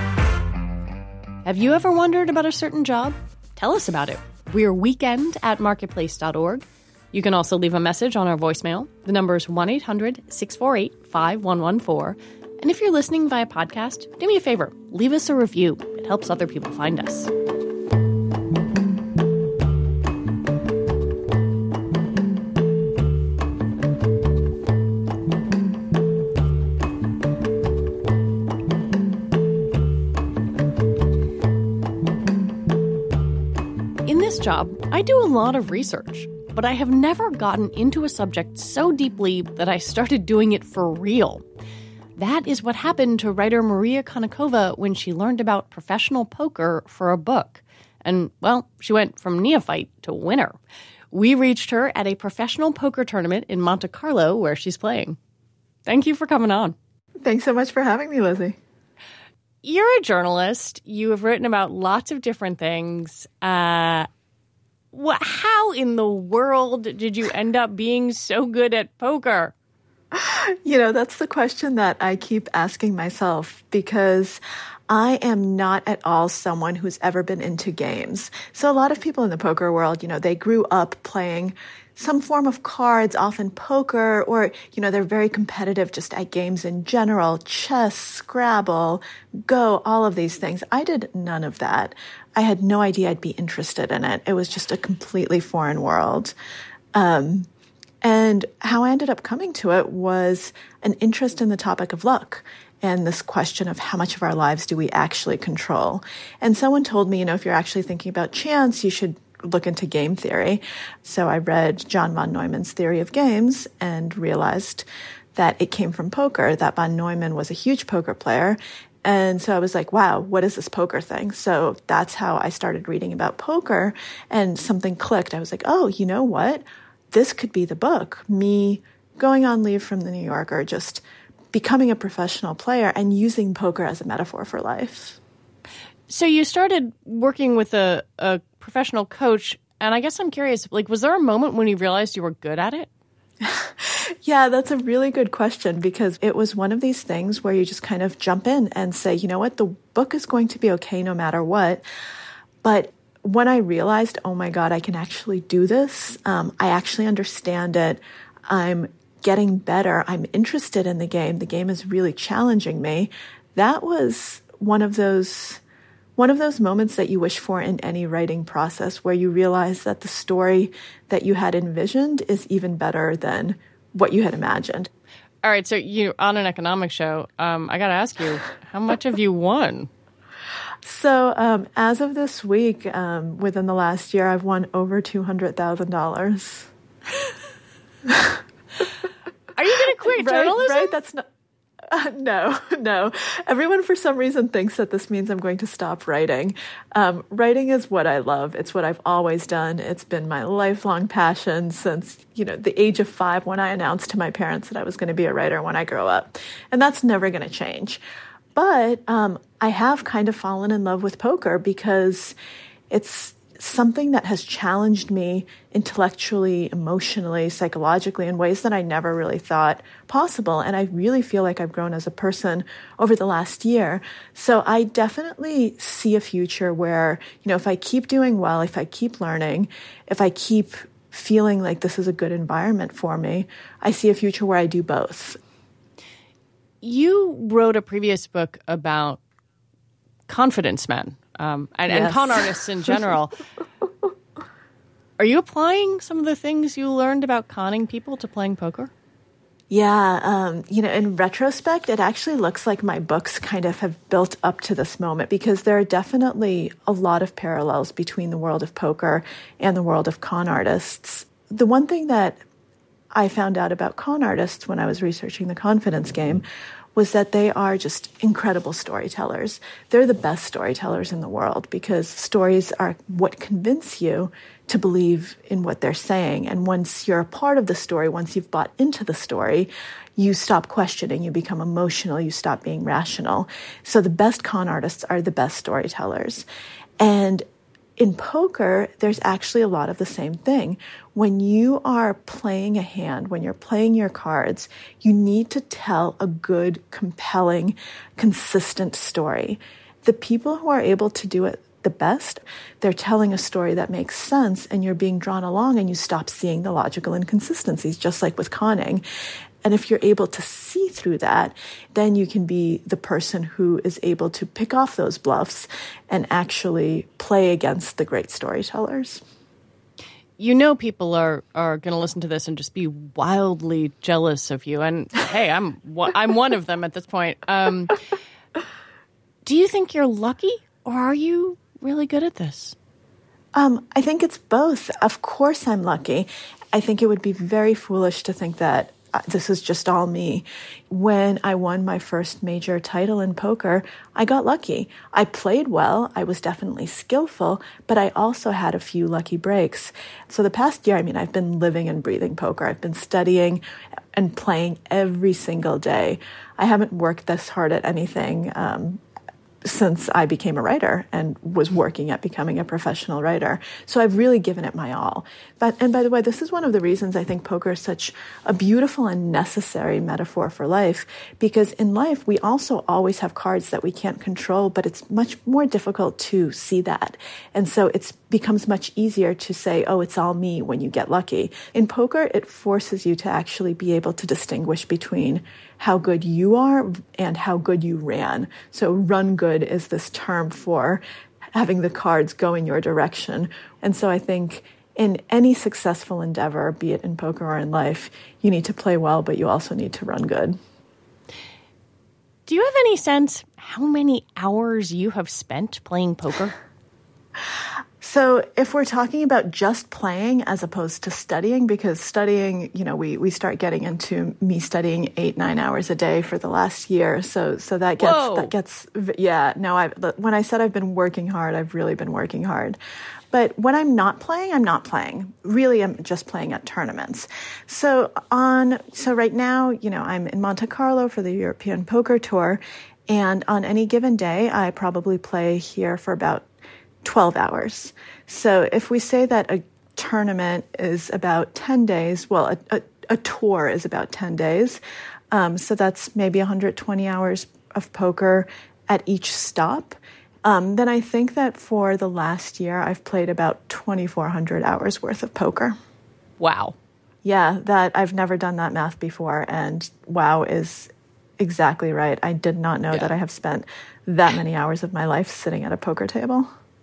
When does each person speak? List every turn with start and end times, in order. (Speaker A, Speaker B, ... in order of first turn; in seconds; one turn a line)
Speaker A: 1.4-17.3
Speaker A: 34.0-41.4
Speaker A: 42.2-50.6
Speaker A: 51.1-55.2
Speaker A: 55.9-56.7
Speaker B: 57.2-58.6
Speaker A: 59.6-64.1
Speaker A: 64.9-69.5
Speaker B: 70.1-96.3
Speaker B: 96.9-97.5
Speaker B: 98.0-135.2
Speaker A: 136.1-142.9
Speaker B: 143.4-151.8
Speaker B: 152.6-165.6
Speaker B: 166.2-174.9
Speaker A: 175.4-179.9
Speaker B: 180.8-186.7
Speaker B: 188.1-188.4
Speaker A: 189.5-191.0
Speaker B: 190.0-191.2
Speaker B: 191.9-208.0
Speaker B: 208.5-212.3
Speaker B: 212.9-235.4
Speaker A: 236.8-239.2
Speaker A: 240.3-243.3
Speaker B: 241.9-242.5
Speaker A: 245.2-248.9
Speaker B: 249.7-262.4
Speaker B: 263.1-286.4
Speaker B: 287.0-287.4
Speaker B: 288.0-309.0
Speaker B: 309.6-319.2
Speaker A: 320.4-328.0
Speaker A: 329.4-332.7
Speaker B: 333.5-353.6
Speaker B: 354.1-359.0
Speaker B: 359.6-391.0
Speaker B: 391.5-400.6
Speaker A: 402.5-406.5
Speaker B: 408.0-422.8
Speaker A: 418.0-418.5
Speaker B: 423.3-436.4
Speaker B: 437.0-444.8
Speaker B: 445.3-455.8
Speaker A: 456.4-456.7
Speaker B: 457.2-466.5